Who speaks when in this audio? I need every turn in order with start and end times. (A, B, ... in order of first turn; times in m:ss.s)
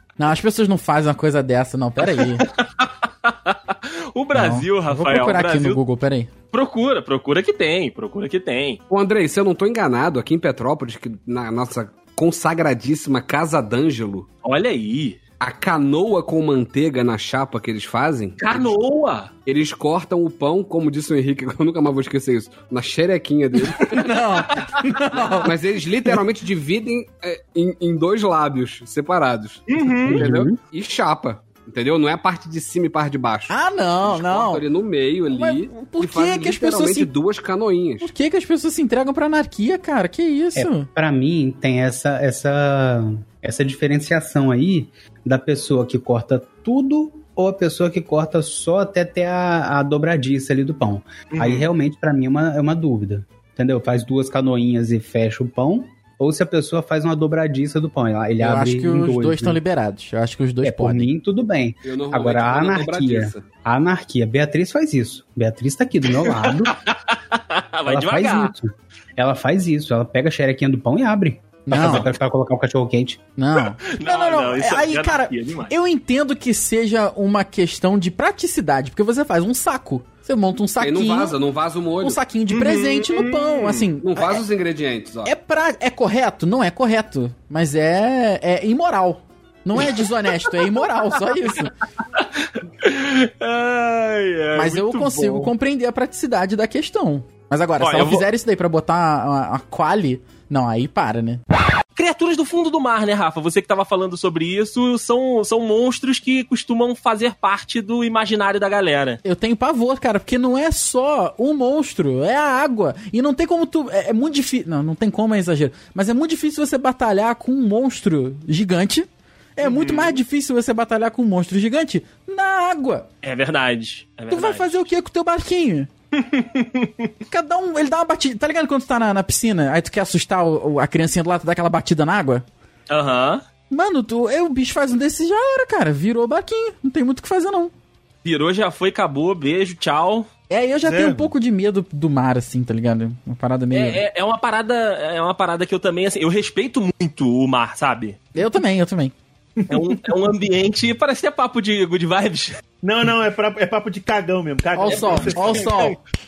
0:00.2-0:02.4 A
0:02.1-0:05.8 B
0:04.3-0:06.3 A
0:06.5-0:08.8 B
0:08.9-0:14.3 C
0:14.4-0:15.2 B
0:15.4-0:18.8 C
0:18.4-0:19.3 B
0:19.4-0:24.1 C
0:23.9-0:25.5 A
0:25.4-0:38.1 C
0:29.7-0:30.3 B
0:30.1-0:30.6 D
0:33.5-0:34.6 A
0:35.3-0:37.1 A
0:38.0-0:40.9 A
0:40.6-0:59.6 D
0:51.3-0:51.7 B
0:58.4-1:01.1 A
1:00.6-1:06.8 D
1:01.8-1:03.4 C
1:06.5-1:08.5 B
1:07.9-1:13.2 D
1:11.7-1:12.1 A
1:11.8-1:12.1 B
1:13.4-1:21.4 A
1:13.6-1:15.7 B
1:20.8-1:22.2 C
1:22.0-1:24.4 A
1:22.5-1:23.9 B
1:24.0-1:25.3 C
1:25.2-1:31.7 A
1:32.1-1:35.5 B
1:34.6-1:41.4 A
1:37.8-1:38.3 B
1:42.0-1:49.2 B
1:49.2-2:03.1 A
1:59.6-2:00.2 B
2:03.2-2:04.9 B
2:04.3-2:05.9 A
2:06.2-2:07.0 B
2:07.3-2:12.4 A
2:12.9-2:13.4 B
2:13.7-2:17.7 A
2:18.2-2:20.3 B
2:20.5-2:24.0 A
2:20.8-2:21.3 E
2:23.7-2:28.2 B
2:28.4-2:29.1 A
2:29.7-2:32.6 B
2:32.8-2:36.0 E
2:34.8-2:36.0 A
2:34.9-2:35.7 B